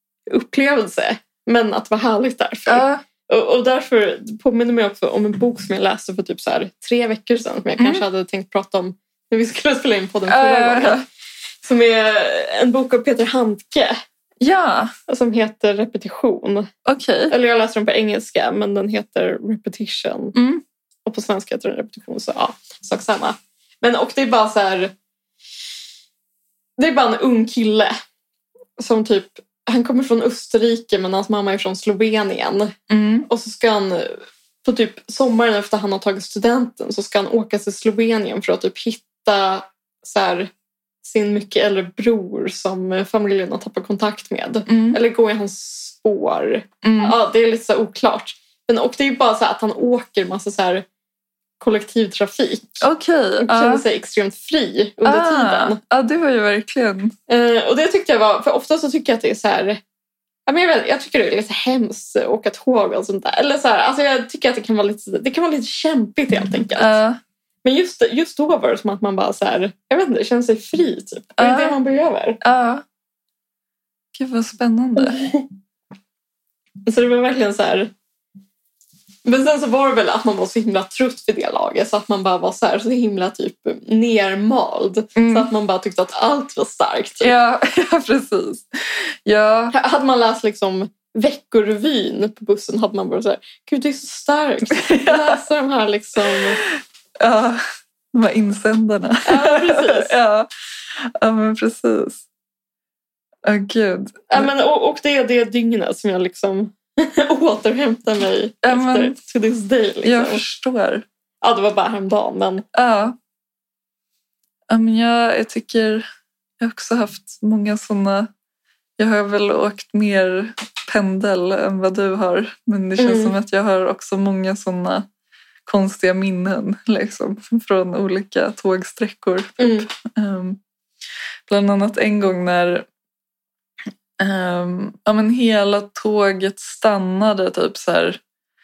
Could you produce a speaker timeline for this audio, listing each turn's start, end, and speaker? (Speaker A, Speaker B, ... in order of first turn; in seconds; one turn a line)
Speaker A: 0.3-11.0
Speaker B: 2.7-3.0
Speaker B: 7.8-8.0
Speaker B: 10.3-11.0
Speaker A: 11.6-13.9
Speaker B: 14.4-14.9
Speaker A: 15.1-16.7
Speaker B: 16.9-17.3
Speaker A: 17.3-20.4
Speaker B: 20.3-20.6
Speaker A: 21.1-24.9
Speaker A: 26.8-27.9
Speaker A: 28.8-32.7
Speaker B: 32.9-33.3
Speaker A: 33.3-40.5
Speaker A: 41.0-50.8
Speaker B: 44.7-45.0
Speaker B: 46.8-47.1
Speaker A: 51.6-52.8
Speaker B: 52.8-53.8
Speaker A: 53.4-55.8
Speaker B: 55.0-57.1
Speaker A: 57.3-59.8
Speaker A: 60.5-67.0
Speaker B: 66.8-67.2
Speaker A: 67.6-72.4
Speaker B: 71.4-71.8
Speaker B: 72.4-72.8
Speaker B: 74.1-75.3
Speaker A: 75.1-75.4
Speaker A: 76.8-77.9
Speaker A: 79.2-87.3
Speaker B: 85.2-85.5
Speaker B: 87.2-89.7
Speaker A: 89.7-96.6
Speaker B: 94.7-95.4
Speaker B: 96.3-96.7
Speaker B: 97.2-97.6
Speaker B: 98.1-102.2
Speaker A: 99.2-100.1
Speaker B: 103.4-104.5
Speaker A: 104.3-110.4
Speaker B: 108.6-109.1
Speaker B: 110.0-111.0
Speaker A: 111.4-112.6
Speaker B: 112.7-113.2
Speaker B: 114.7-116.1
Speaker B: 116.6-118.3
Speaker B: 119.0-125.0
Speaker A: 123.0-123.3
Speaker B: 125.7-130.6
Speaker A: 129.6-129.9
Speaker B: 131.5-132.9
Speaker B: 134.2-138.2